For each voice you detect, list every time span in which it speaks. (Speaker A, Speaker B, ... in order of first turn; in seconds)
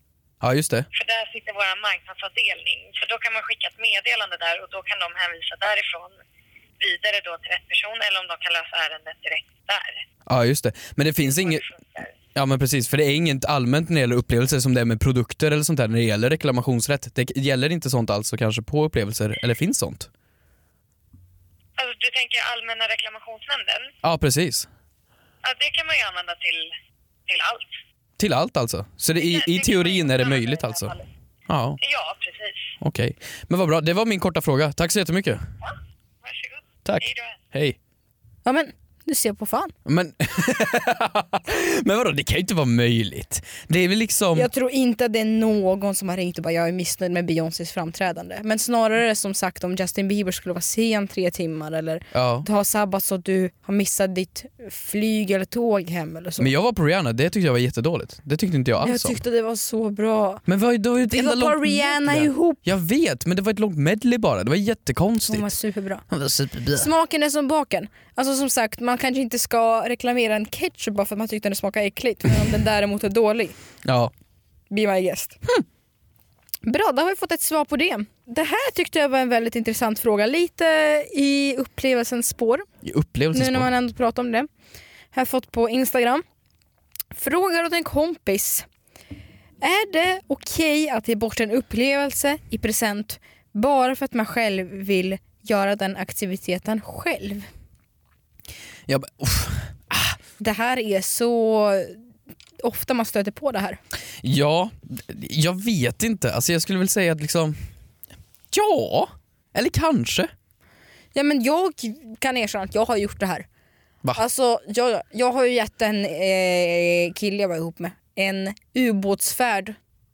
Speaker A: 0.4-0.9, 10.3-11.6, 12.3-20.1, 24.0-24.7, 28.2-30.9, 31.5-31.8, 32.8-35.4, 36.8-37.8, 39.8-44.5, 52.1-52.5, 56.4-59.2, 60.5-65.5, 66.1-66.9, 73.8-74.1, 82.8-83.7, 98.9-100.2, 104.2-107.5, 108.5-110.3
Speaker B: 0.9-6.1, 6.8-10.0, 11.2-12.1, 21.8-23.9, 25.4-26.7, 27.3-27.7, 29.2-31.0, 31.8-32.7, 35.6-37.4
Speaker C: 38.4-39.7, 44.3-56.5, 58.8-60.4, 61.1-62.6, 65.3-66.0, 66.7-73.5, 74.7-75.4, 76.6-82.7, 83.3-84.5, 85.1-86.2, 87.1-88.7, 89.6-97.5, 100.4-102.0, 102.6-103.8, 111.1-113.5, 114.2-119.8